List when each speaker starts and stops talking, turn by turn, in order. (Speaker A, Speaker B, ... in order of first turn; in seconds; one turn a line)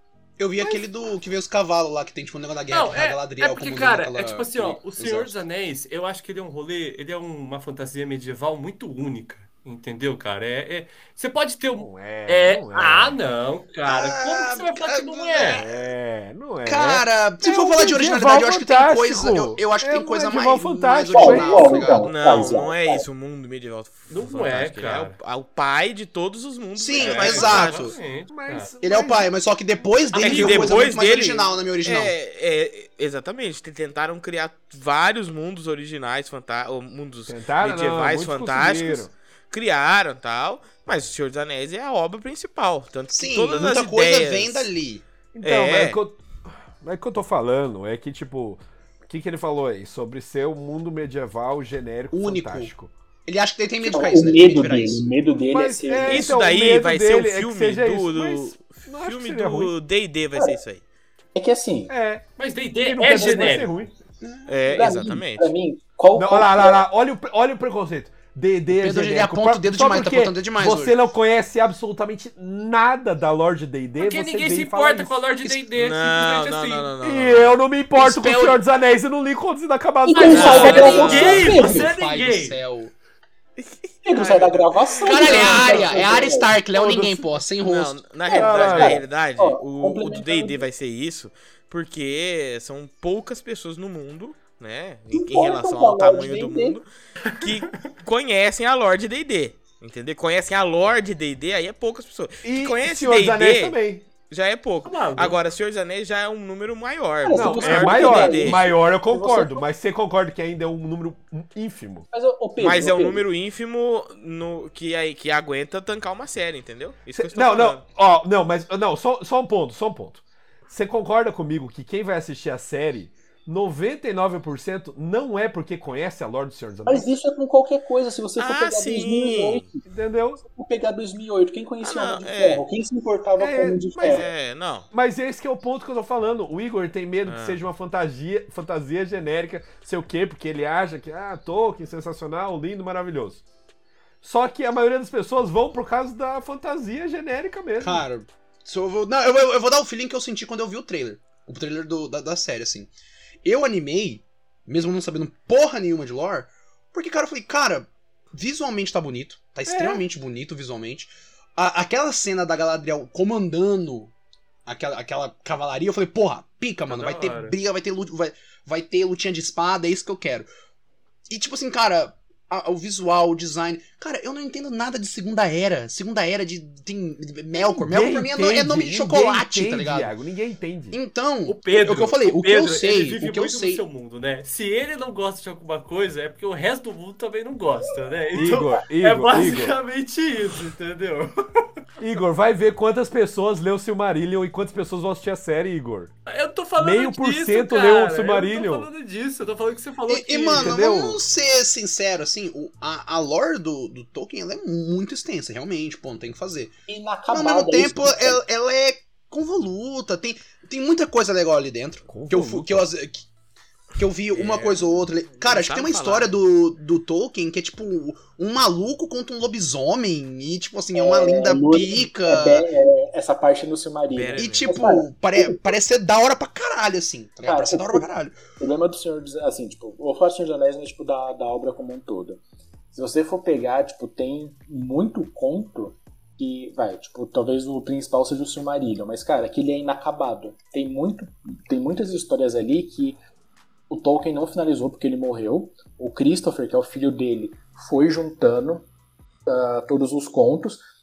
Speaker A: 0.4-5.3
Speaker B: 0.6-0.8
Speaker C: 2.7-15.6
Speaker B: 11.7-13.2
Speaker A: 13.8-15.9
Speaker B: 15.5-21.9
Speaker A: 16.6-22.6
Speaker D: 21.1-23.1
Speaker E: 22.0-27.9
Speaker C: 24.1-25.2
Speaker A: 26.8-28.0
Speaker C: 27.0-28.7
Speaker B: 28.3-29.3
Speaker A: 28.8-32.1
Speaker E: 30.1-44.7
Speaker C: 30.2-30.7
Speaker B: 37.3-39.1
Speaker A: 43.1-45.0
Speaker B: 45.3-52.9
Speaker E: 45.4-46.0
Speaker A: 52.1-52.7
Speaker A: 53.3-55.0
Speaker D: 53.8-56.4
Speaker B: 55.5-59.7
Speaker E: 56.0-60.8
Speaker D: 61.3-61.9
Speaker B: 61.9-62.2
Speaker C: 62.4-63.7
Speaker B: 62.8-63.9
Speaker D: 63.1-63.7
Speaker A: 64.2-64.9
Speaker E: 64.5-65.5
Speaker D: 64.7-66.8
Speaker B: 66.1-75.1
Speaker A: 68.7-71.0
Speaker C: 74.0-76.9
Speaker E: 75.8-77.5
Speaker B: 77.0-81.2
Speaker A: 78.0-78.6
Speaker D: 80.0-81.9
Speaker C: 80.1-82.6
Speaker E: 80.3-81.5
Speaker A: 80.5-82.9
Speaker E: 83.6-86.3
Speaker D: 84.0-86.6
Speaker A: 85.0-88.1
Speaker B: 86.7-87.2
Speaker E: 87.6-108.6
Speaker D: 88.2-90.6
Speaker B: 88.3-89.0
Speaker D: 95.1-96.8
Speaker C: 97.3-97.7
Speaker B: 102.4-104.0
Speaker C: 104.8-105.4
Speaker D: 107.2-109.6
Speaker B: 107.3-112.0
Speaker D: 112.1-113.2
Speaker E: 112.6-117.8
Speaker B: 117.1-127.1
Speaker D: 126.8-129.8
Speaker E: 128.4-129.6
Speaker B: 129.8-130.4
Speaker D: 130.4-134.3
Speaker E: 131.8-132.6
Speaker B: 133.4-134.3
Speaker E: 134.0-134.9
Speaker B: 134.9-143.4
Speaker E: 137.2-137.6
Speaker B: 144.2-148.0
Speaker A: 147.8-152.9
Speaker A: 153.4-164.1
Speaker B: 159.7-160.0
Speaker A: 164.7-170.5
Speaker C: 166.9-167.6
Speaker A: 171.3-180.1
Speaker B: 177.6-181.0
Speaker A: 180.9-183.8
Speaker C: 181.4-191.7
Speaker B: 188.3-189.8
Speaker B: 192.0-196.1
Speaker C: 196.3-200.8
Speaker B: 196.8-198.9
Speaker A: 200.1-206.7
Speaker B: 200.5-201.2
Speaker D: 206.9-208.4
Speaker A: 207.3-213.2
Speaker B: 212.1-212.9
Speaker A: 213.9-222.7
Speaker E: 214.3-216.3
Speaker D: 220.9-225.6
Speaker E: 224.1-224.8
Speaker A: 224.3-228.4
Speaker D: 227.4-228.1
Speaker D: 228.6-232.4
Speaker D: 232.9-243.2
Speaker D: 243.9-248.9
Speaker D: 249.5-250.8